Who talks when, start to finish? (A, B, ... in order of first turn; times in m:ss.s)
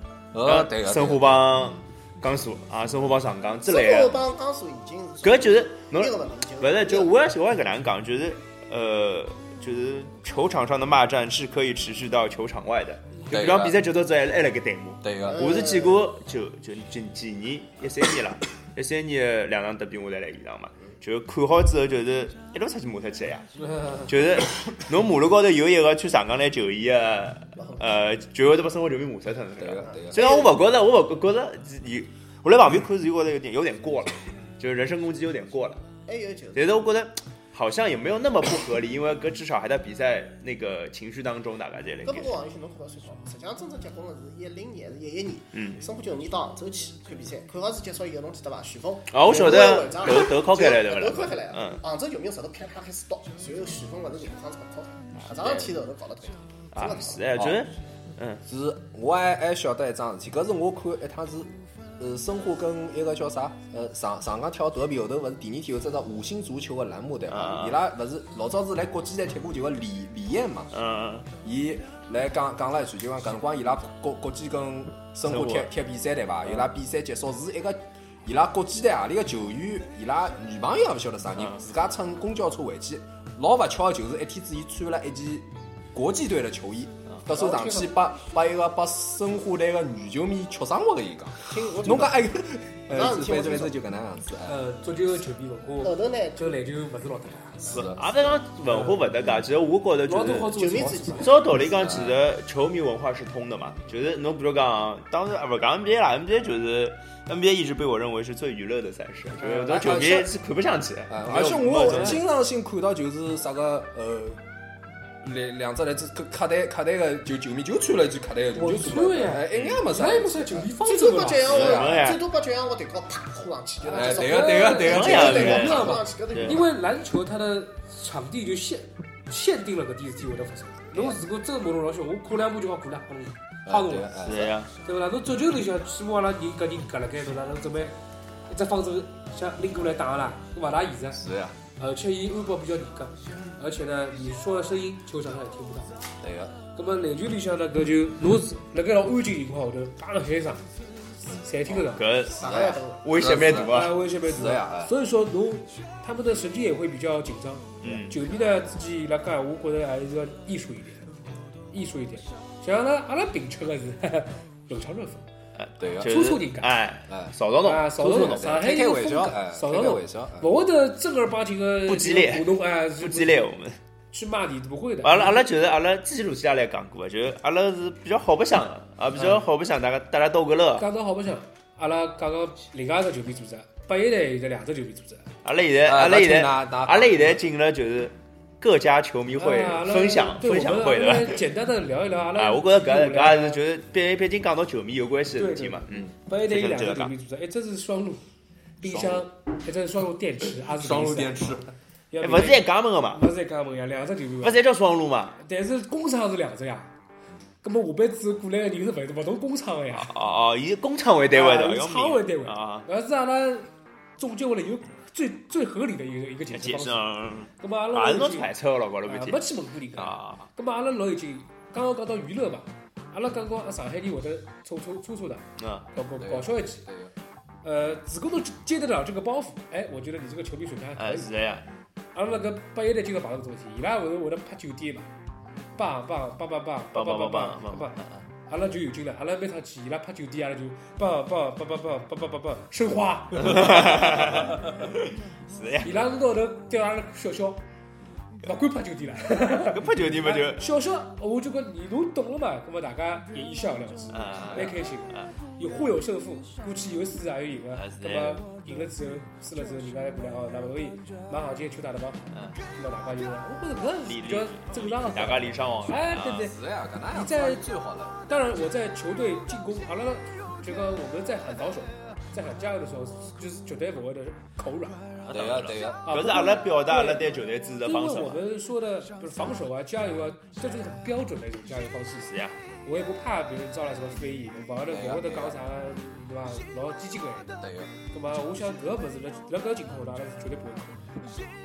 0:00.3-0:01.5 A
0:00.4-0:04.2 B
0:03.6-0:07.1 C
0:05.2-0:35.8 B
0:13.3-0:13.8 A
0:15.0-0:15.4 A
0:15.2-0:16.1 C
0:23.8-0:24.0 D
0:27.6-0:27.9 C
0:29.6-0:30.2 A
0:29.8-0:30.6 C
0:36.1-0:36.9 C
0:36.5-0:42.4 B
0:42.0-0:57.2 C
0:45.5-0:45.8 B
0:49.1-0:51.8 B
0:55.2-0:55.7 B
0:56.7-0:58.4 B
0:57.4-0:57.6 A
0:58.4-1:10.7 A
1:07.3-1:07.8 B
1:10.7-1:11.3 B
1:11.4-1:34.6 A
1:15.2-1:15.7 B
1:21.4-1:21.6 B
1:27.3-1:28.0 D
1:31.4-1:32.2 C
1:32.9-1:33.8 C
1:34.4-1:37.9 D
1:35.8-1:36.6 C
1:37.7-1:38.0 A
1:37.7-1:40.6 B
1:38.7-1:39.0 D
1:40.0-1:41.4 D
1:40.5-1:41.5 C
1:41.2-1:52.2 B
1:41.7-1:42.2 A
1:49.4-1:50.3 A
1:51.1-1:54.4 A
1:51.8-1:52.2 D
1:55.2-2:00.7 A
1:58.5-2:01.8 D
1:59.5-1:59.8 B
2:00.8-2:06.7 C
2:01.4-2:02.2 B
2:01.5-2:02.1 A
2:03.8-2:06.0 A
2:03.8-2:14.1 D
2:04.8-2:06.6 B
2:13.6-2:14.6 A
2:14.2-2:14.7 B
2:14.8-2:21.2 D
2:21.1-2:21.6 A
2:21.8-2:25.9 D
2:26.2-2:26.5 A
2:26.7-2:30.6 D
2:31.3-2:32.0 D
2:31.6-2:34.9 A
2:31.9-2:34.0 B
2:32.4-2:33.0 C
2:33.6-2:41.0 D
2:37.8-2:38.1 B
2:41.7-2:45.2 D
2:45.6-2:48.6 B
2:45.8-2:46.1 A
2:46.0-2:46.7 D
2:47.1-2:47.3 A
2:47.6-2:53.5 D
2:48.0-2:50.5 A
2:51.9-2:53.8 B
2:54.1-2:55.5 D
2:55.0-3:00.8 B
3:00.8-3:05.3 D
3:05.4-3:11.4 B
3:05.8-3:07.4 A
3:09.3-3:13.6 D
3:12.3-3:17.1 B
3:15.4-3:18.2 D
3:18.8-3:24.6 D
3:18.8-3:19.2 A
3:20.6-3:21.7 A
3:22.2-3:23.2 B
3:24.4-3:25.4 B
3:25.4-3:26.9 D
3:27.6-3:30.1 D
3:29.9-3:32.8 B
3:31.3-3:37.0 D
3:36.5-3:39.4 B
3:37.6-3:38.5 D
3:39.0-3:46.8 D
3:40.0-3:40.5 B
3:45.6-3:45.8 B
3:46.2-3:47.1 A
3:47.6-3:51.3 D
3:51.0-3:51.6 B
3:52.1-3:55.1 D
3:55.8-4:04.7 D
3:56.9-3:58.2 B
4:03.4-4:06.0 B
4:05.8-4:07.6 D
4:08.4-4:27.7 D
4:09.5-4:10.6 B
4:14.1-4:15.3 B
4:17.7-4:18.4 B
4:22.3-4:22.6 B
4:24.0-4:26.5 B
4:26.2-4:28.2 A
4:28.2-4:35.1 D
4:35.2-4:38.4 B
4:35.3-4:36.1 A
4:36.0-4:42.3 D
4:42.2-4:42.6 B
4:42.8-4:51.2 D
4:44.9-4:45.6 A
4:47.6-4:47.9 A